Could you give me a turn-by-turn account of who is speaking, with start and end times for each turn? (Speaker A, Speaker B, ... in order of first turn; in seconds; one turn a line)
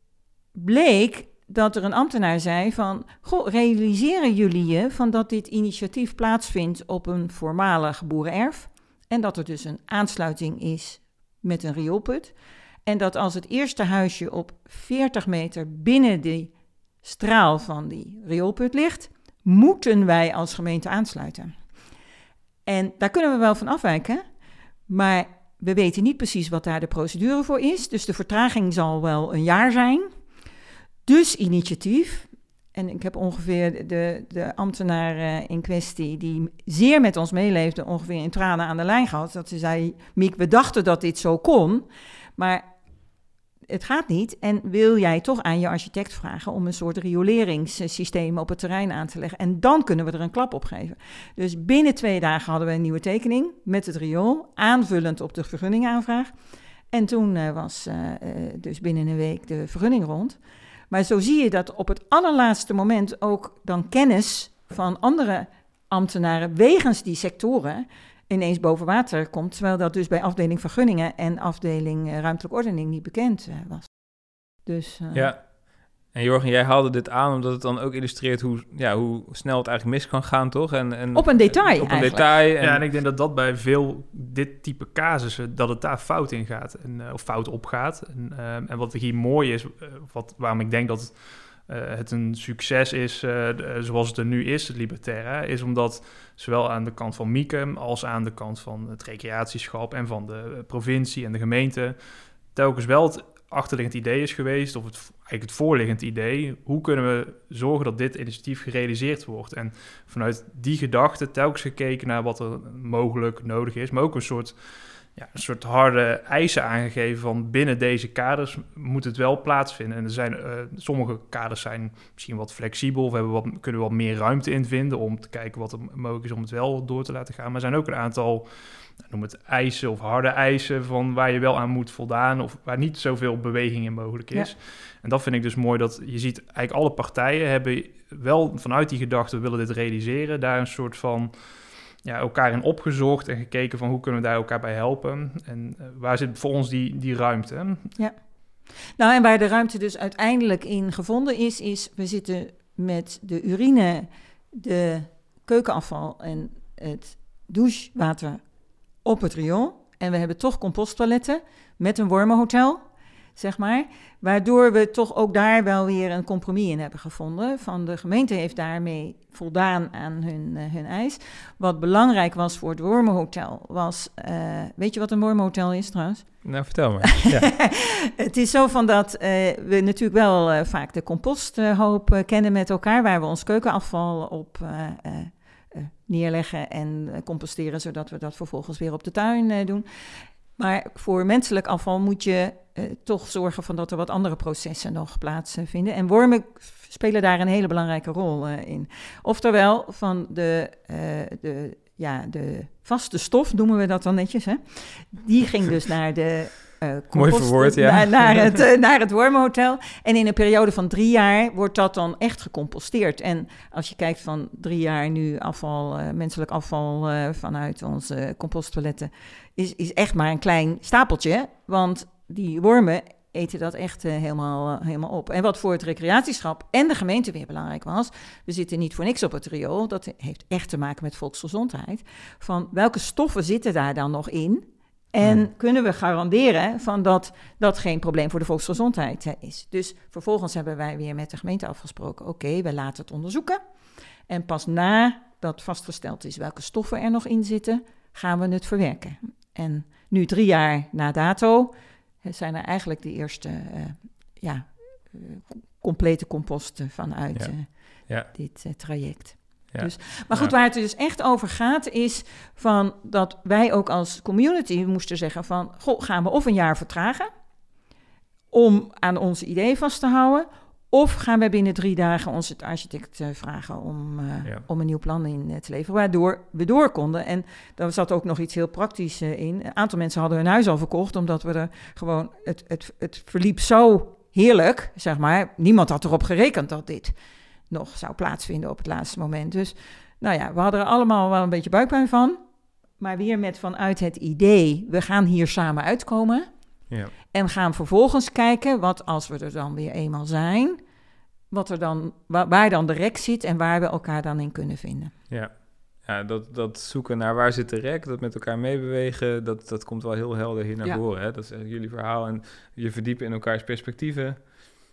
Speaker A: 0.6-12.3
Speaker A: 12.9-16.5
Speaker A: 17.0-21.5
Speaker A: 22.7-24.2
Speaker A: 24.9-30.1
Speaker A: 31.1-41.9
Speaker A: 42.4-42.7
Speaker A: 43.7-56.3
Speaker A: 56.9-60.4
Speaker A: 60.9-73.9
Speaker A: 74.6-75.3
Speaker B: 75.1-75.5
Speaker B: 76.1-82.8
Speaker A: 81.1-82.3
Speaker C: 82.6-91.2
Speaker C: 91.7-102.0
Speaker C: 102.5-114.6
Speaker C: 115.2-128.5
Speaker C: 129.0-141.3
Speaker C: 142.1-147.8
Speaker A: 149.0-158.4
Speaker A: 159.1-162.8
Speaker A: 163.4-176.3
Speaker B: 176.4-177.5
Speaker A: 177.3-189.8
Speaker A: 190.6-243.6
Speaker B: 207.1-208.6
Speaker A: 244.3-251.7
Speaker A: 252.2-257.7
Speaker A: 258.3-267.3
Speaker B: 259.7-260.5
Speaker A: 268.5-287.1
Speaker A: 287.7-292.4
Speaker A: 293.0-296.5
Speaker A: 297.2-300.8
Speaker A: 301.5-305.1
Speaker B: 305.3-314.5